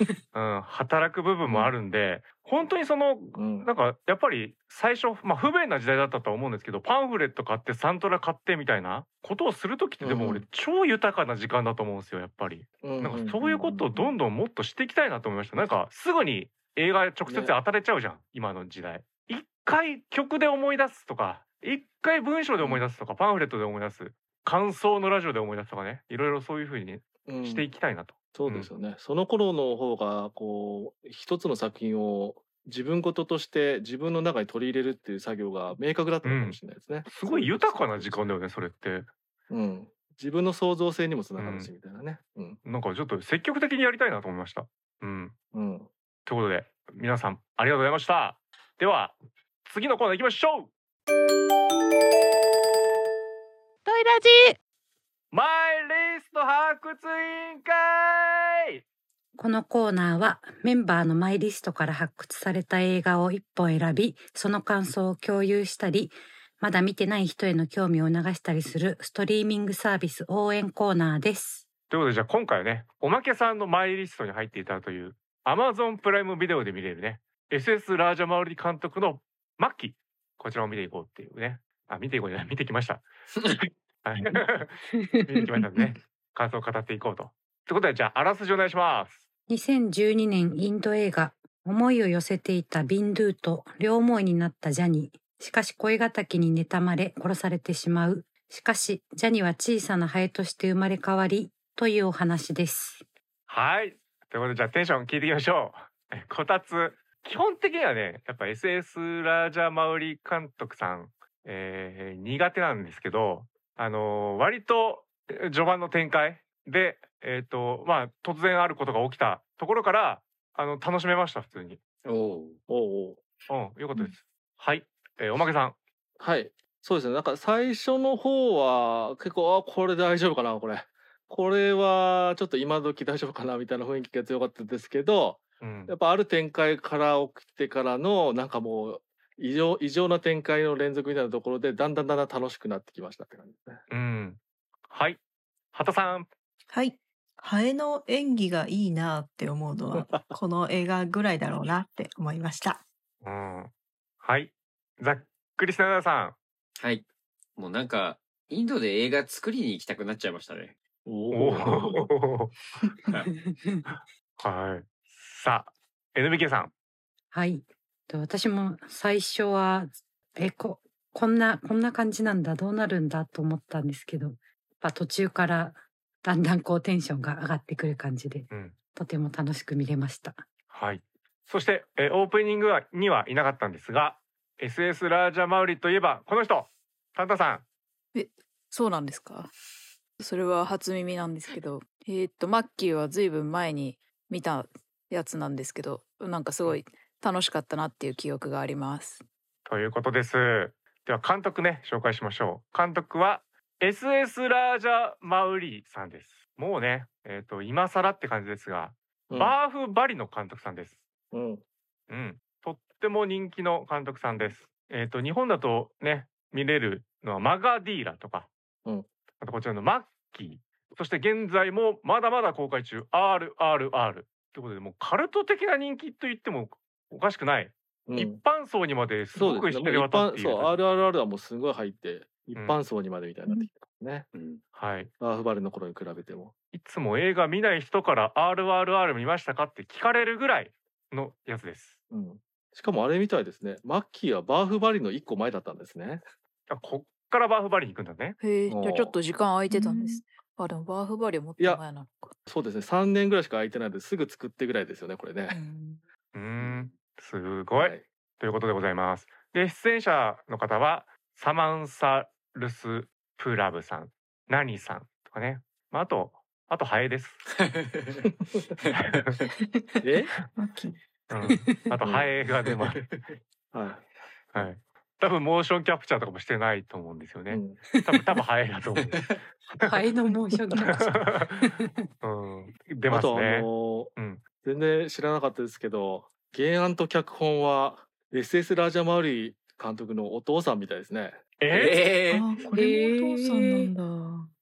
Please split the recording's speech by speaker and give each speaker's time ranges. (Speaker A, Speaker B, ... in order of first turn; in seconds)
Speaker A: 0.3-28.7, 36.2-39.1, 41.4-41.7, 42.6-45.3, 46.2-50.7, 55.3-58.8, 71.9-83.0, 84.0-89.2, 103.5-121.8, 123.5-125.8, 135.6-135.9, 143.9-144.4, 144.9-145.2, 145.7-146.3, 153.2-153.7, 154.2-156.4, 161.3-162.5, 164.4-166.7, 180.7-187.6, 199.7-211.0, 212.1-218.5, 219.4-230.8, 232.5-232.8, 234.7-235.1, 236.7-242.0, 246.7-248.4, 256.3-267.4, 268.9-269.4, 271.3-273.0, 274.5-280.0, 280.7-284.4, 291.6-292.0
Speaker B: 1.4-1.7, 3.3-3.7, 10.0-10.4, 12.8-14.1, 17.2-17.5, 22.6-22.8, 27.2-27.6, 28.3-38.3, 39.5-42.6, 45.5-45.9, 122.7-123.2, 126.2-143.8, 149.9-150.3, 161.1-162.1, 209.3-209.5, 211.3-211.6, 228.1-228.4, 229.3-234.2, 235.2-236.5, 242.1-246.2, 248.7-249.2, 252.5-255.5, 257.8-258.0, 268.4-268.7, 270.0-270.3, 272.0-272.3, 273.7-274.1, 277.5-277.8, 283.1-291.4
Speaker C: 59.4-71.6, 84.9-85.6, 89.5-103.0, 163.3-163.8, 167.3-180.4, 271.4-271.9, 277.9-278.2, 279.8-282.0, 292.7-293.9
Speaker D: 122.0-122.6, 156.8-157.0, 157.6-160.8, 234.3-234.6, 256.6-256.9, 267.6-268.2, 291.7-292.6
Speaker E: 146.7-152.8, 249.7-250.2, 255.5-256.0, 270.5-271.0, 292.3-294.5
Speaker F: 188.1-189.5, 190.2-199.2, 248.4-252.3